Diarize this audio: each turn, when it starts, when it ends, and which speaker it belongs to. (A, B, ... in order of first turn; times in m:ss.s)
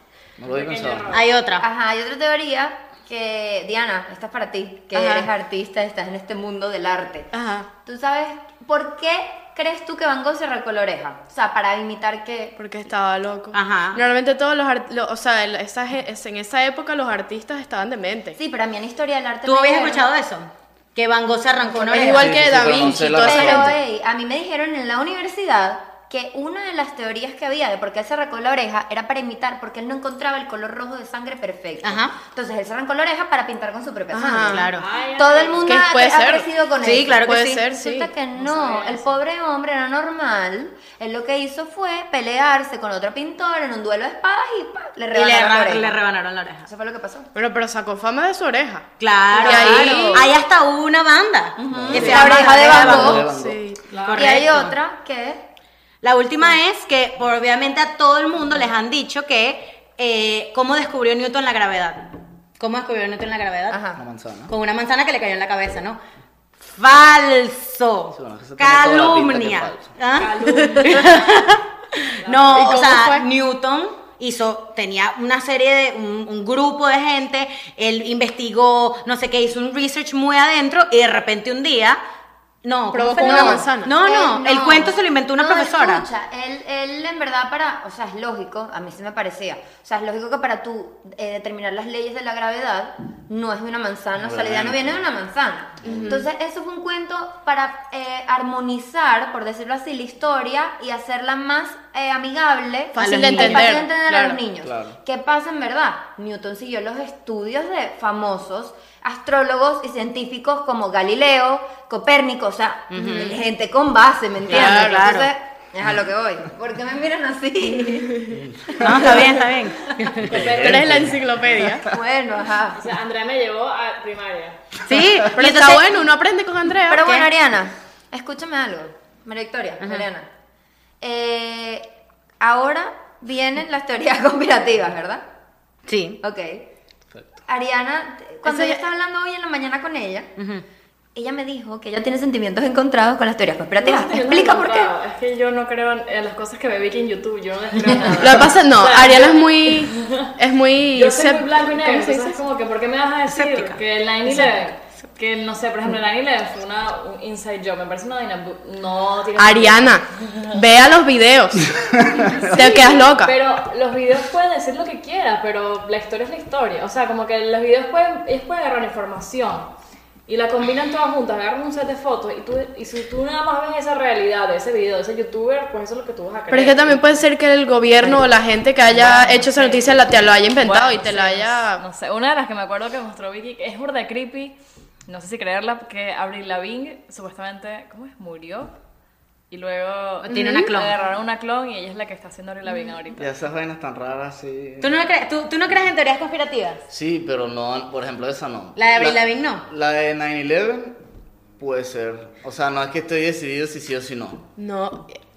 0:00.4-0:01.2 A
0:00.4-0:01.3 B
0:01.1-0:01.6 C
0:01.6-0:07.3 D
0:04.9-0:05.3 C
0:07.3-0:07.7 E
0:07.8-0:12.6 D
0:12.6-0:18.4 E
0:13.5-0:14.0 C
0:18.4-0:20.0 D
0:19.4-0:22.4 C
0:21.7-0:46.0 D
0:21.9-0:23.7 E
0:22.1-0:23.8 A
0:31.8-0:32.2 C
0:34.1-0:34.7 E
0:34.4-0:34.8 C
0:34.8-0:35.8 B
0:35.6-0:36.5 E
0:36.8-0:37.6 C
0:37.1-0:38.1 E
0:38.3-0:39.2 B
0:45.1-0:46.7 C
0:46.6-0:47.3 D
0:47.3-0:50.3 E
0:49.0-0:53.3 C
0:49.3-0:50.3 D
0:51.6-0:53.3 D
0:51.7-0:53.7 A
0:51.9-0:53.8 E
0:53.9-0:54.4 B
0:54.0-0:54.8 C
0:54.1-0:55.4 D
0:56.0-1:03.8 C
1:03.7-1:04.0 D
1:04.0-1:04.5 A
1:04.5-1:06.0 C
1:06.7-1:22.0 C
1:08.1-1:09.9 A
1:10.2-1:11.3 B
1:12.2-1:12.7 B
1:12.5-1:13.3 E
1:22.6-1:26.0 C
1:22.9-1:23.9 E
1:23.2-1:59.4 D
1:34.2-1:35.0 A
1:35.8-1:36.2 A
1:35.8-1:36.3 E
1:42.9-1:44.4 E
1:43.0-1:43.7 C
1:44.6-1:45.0 A
1:52.9-1:53.4 C
1:53.1-1:53.4 E
1:54.5-1:55.3 C
1:54.5-1:55.0 E
1:57.8-1:58.4 E
1:58.3-1:59.1 A
1:58.8-2:00.4 C
2:00.2-2:01.0 B
2:00.2-2:01.9 A
2:00.5-2:01.9 E
2:01.8-2:02.8 D
2:02.7-2:04.6 B
2:04.8-2:06.0 C
2:05.3-2:07.1 E
2:06.9-2:10.3 D
2:11.0-2:11.9 D
2:12.4-2:15.2 D
2:15.9-2:16.2 C
2:16.2-2:16.6 D
2:17.5-2:20.3 D
2:18.4-2:18.8 E
2:20.4-2:20.6 C
2:21.1-2:24.9 D
2:23.8-2:30.3 B
2:28.2-2:32.4 E
2:30.9-2:40.5 B
2:33.3-2:34.5 C
2:39.4-2:43.3 E
2:42.3-2:49.7 B
2:50.3-2:57.0 B
2:56.5-3:01.8 E
2:58.9-3:00.0 B
3:00.6-3:08.7 B
3:09.5-3:13.3 B
3:10.2-3:10.9 C
3:10.3-3:10.7 E
3:13.1-3:15.0 A
3:14.8-3:16.8 C
3:16.9-3:21.0 A
3:18.8-3:19.6 C
3:21.6-3:24.5 A
3:24.6-3:25.2 E